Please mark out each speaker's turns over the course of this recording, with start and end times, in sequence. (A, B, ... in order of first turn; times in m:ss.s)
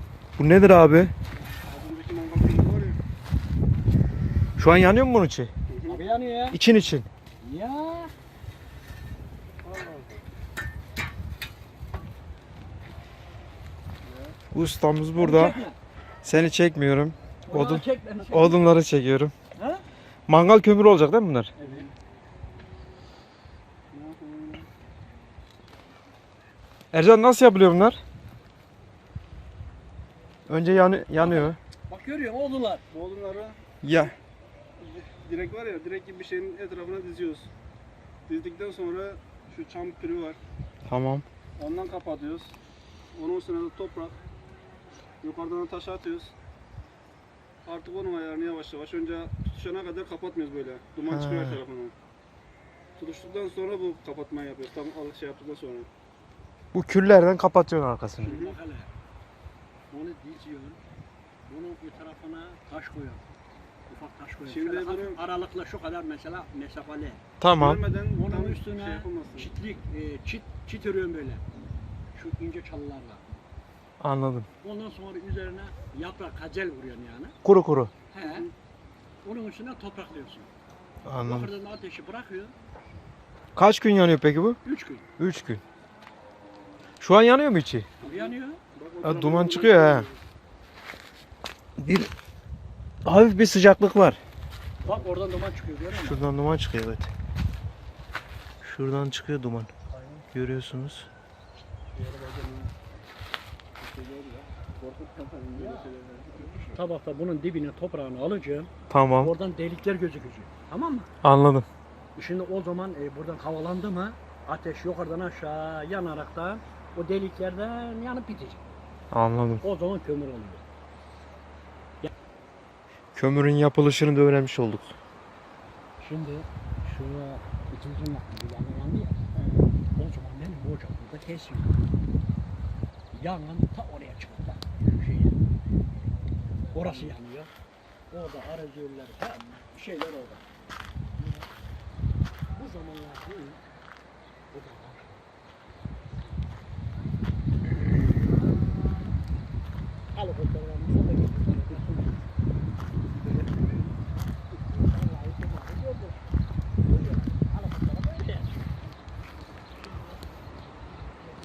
0:00.4-0:01.1 A
0:01.6-0:03.0 B
0:04.6-0:05.5 A
0:05.7-0:06.0 B
0:05.9-0:06.6 C
0:06.5-0:07.1 A
0:07.4-0:08.1 C
0:09.6-0:10.2 B
0:14.0-0:14.4 B
0:14.5-0:15.7 A
0:15.2-0:15.8 C
0:16.2-0:19.3 A
0:17.5-0:18.6 C
0:19.6-0:19.8 C
0:20.3-0:21.5 A
0:21.6-0:21.9 B
0:23.9-0:24.7 B
0:26.9-0:28.0 A
0:30.5-0:31.6 A
0:31.2-0:32.8 C
0:32.9-0:33.6 B
0:33.8-0:34.1 A
0:34.8-0:37.5 B
0:38.3-0:40.4 B
0:40.8-0:41.2 A
0:41.6-0:42.6 B
0:43.1-0:44.2 B
0:45.2-0:46.3 B
0:47.7-0:51.9 B
0:51.1-0:51.6 A
0:53.0-0:55.9 B
0:56.7-0:58.4 A
0:58.2-0:58.9 C
0:58.2-0:58.6 B
0:59.9-1:00.8 C
1:01.5-1:03.3 C
1:03.9-1:07.2 C
1:04.4-1:05.2 B
1:07.4-1:07.8 A
1:07.5-1:09.5 B
1:08.2-1:11.4 C
1:12.1-1:13.2 C
1:14.0-1:14.5 A
1:14.6-1:17.4 C
1:17.4-1:17.9 A
1:18.1-1:18.5 C
1:18.2-1:18.5 B
1:19.2-1:20.5 C
1:21.0-1:21.5 A
1:21.2-1:22.5 C
1:23.6-1:24.6 A
1:24.7-1:25.1 C
1:25.2-1:25.6 A
1:27.0-1:27.9 A
1:28.0-1:28.6 C
1:28.0-1:30.2 B
1:29.0-1:30.1 A
1:31.8-1:32.1 A
1:33.0-1:34.2 A
1:34.8-1:35.1 B
1:34.8-1:36.2 C
1:35.9-1:37.1 A
1:38.6-1:39.7 A
1:39.9-1:40.2 B
1:40.3-1:41.1 A
1:41.9-1:42.7 B
1:43.8-1:46.8 B
1:45.5-1:45.9 C
1:46.6-1:51.1 C
1:48.9-1:49.3 A
1:51.2-1:51.7 A
1:52.2-1:58.6 C
1:59.1-1:59.7 A
1:59.6-2:00.6 C
2:03.2-2:04.9 A
2:06.0-2:09.2 C
2:09.4-2:09.7 B
2:10.0-2:11.9 C
2:13.1-2:15.4 C
2:16.7-2:17.5 C
2:18.1-2:20.4 C
2:22.5-2:23.6 C
2:24.5-2:25.2 C
2:30.1-2:32.1 C
2:33.3-2:33.6 C
2:35.0-2:36.2 C
2:36.8-2:38.6 C